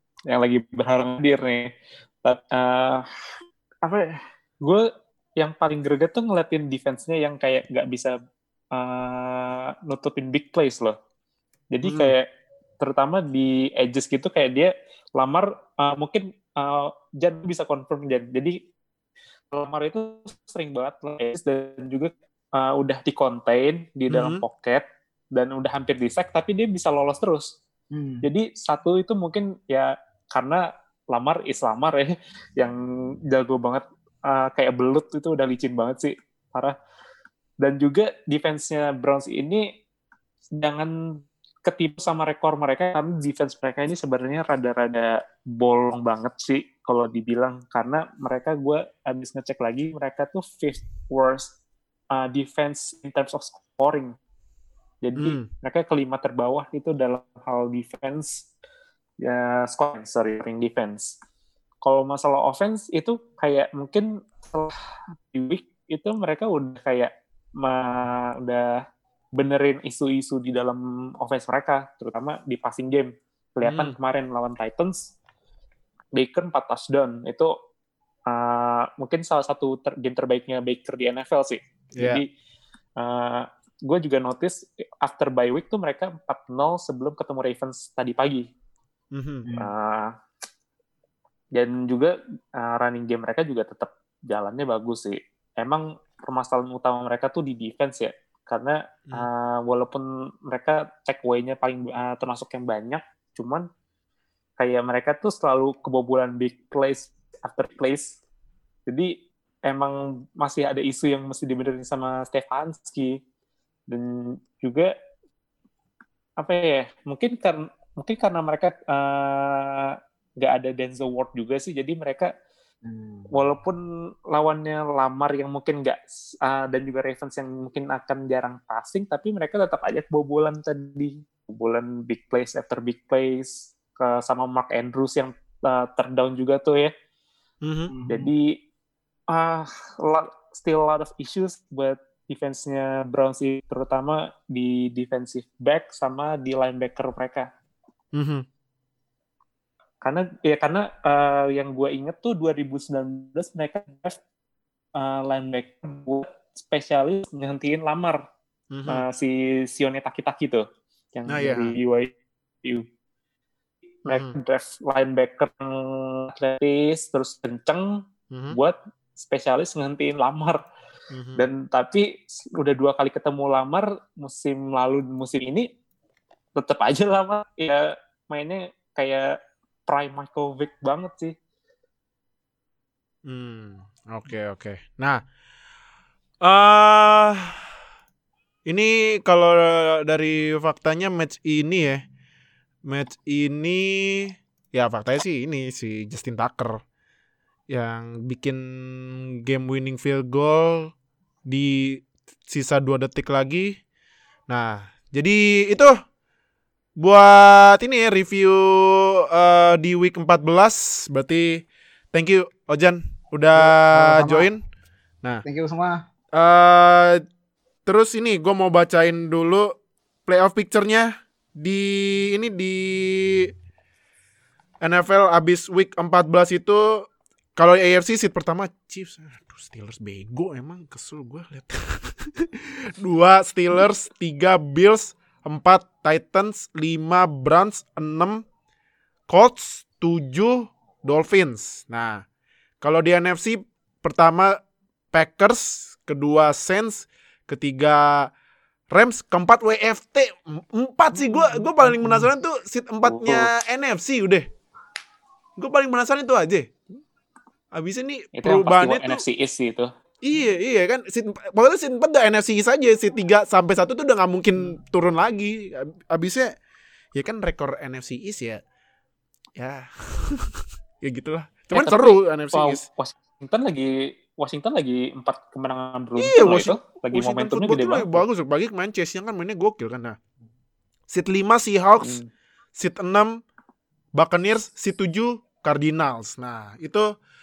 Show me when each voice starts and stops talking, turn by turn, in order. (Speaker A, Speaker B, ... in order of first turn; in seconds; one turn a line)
Speaker A: 0.3-1.7
Speaker A: 2.2-3.1
Speaker A: 3.8-4.8
Speaker A: 5.4-8.1
Speaker A: 8.7-11.0
Speaker A: 11.7-12.3
Speaker B: 11.8-12.1
Speaker A: 12.8-18.6
Speaker A: 19.5-27.5
Speaker B: 24.1-24.4
Speaker C: 27.9-28.3
Speaker A: 28.2-32.8
Speaker A: 33.3-36.8
Speaker A: 37.6-39.7
Speaker A: 40.6-51.5
Speaker A: 52.1-54.1
Speaker A: 55.0-58.5
Speaker B: 55.2-55.5
Speaker A: 59.2-61.1
Speaker A: 61.8-64.7
Speaker A: 65.3-68.8
Speaker A: 69.3-75.1
Speaker B: 73.6-74.0
Speaker A: 76.2-77.5
Speaker A: 78.3-82.3
Speaker B: 82.0-82.2
Speaker A: 83.0-88.5
Speaker B: 89.1-89.5
Speaker C: 89.5-89.7
Speaker A: 89.6-90.1
Speaker A: 91.5-103.7
Speaker A: 104.6-108.2
Speaker A: 108.9-109.1
Speaker A: 109.7-113.2
Speaker A: 113.9-114.9
Speaker A: 116.4-122.3
Speaker C: 122.8-123.4
Speaker A: 123.3-136.9
Speaker B: 137.6-137.9
Speaker C: 137.9-138.3
Speaker A: 138.1-138.6
Speaker A: 139.3-147.5
Speaker B: 148.1-148.4
Speaker A: 150.0-154.2
Speaker A: 155.0-158.2
Speaker B: 158.7-159.0
Speaker A: 158.9-162.8
Speaker B: 161.3-161.8
Speaker A: 164.1-168.0
Speaker B: 164.1-164.4
Speaker B: 168.3-168.6
Speaker A: 168.5-170.6
Speaker B: 171.1-171.4
Speaker A: 171.4-175.7
Speaker A: 176.6-179.3
Speaker A: 179.9-181.3
Speaker B: 183.3-185.2
Speaker B: 186.4-187.7
Speaker B: 188.7-192.0
Speaker B: 192.8-196.8
Speaker B: 197.7-200.9
Speaker B: 201.5-203.8
Speaker B: 204.5-206.0
Speaker B: 207.0-214.6
Speaker C: 213.6-214.5
Speaker C: 215.4-216.1
Speaker B: 216.3-217.2
Speaker B: 217.9-223.5
Speaker B: 224.8-238.4
Speaker B: 239.3-242.2
Speaker B: 242.8-244.6
Speaker B: 245.1-248.3
Speaker B: 248.9-254.5
Speaker C: 252.0-252.3
Speaker A: 253.0-253.5
Speaker B: 255.6-256.7
Speaker B: 257.7-259.2
Speaker A: 258.4-259.9
Speaker B: 260.2-266.5
Speaker B: 267.1-268.6
Speaker B: 269.6-272.9
Speaker A: 271.7-278.3
Speaker B: 276.2-280.2
Speaker B: 281.1-282.2
Speaker A: 282.0-282.3
Speaker B: 282.8-283.4
Speaker B: 284.1-287.1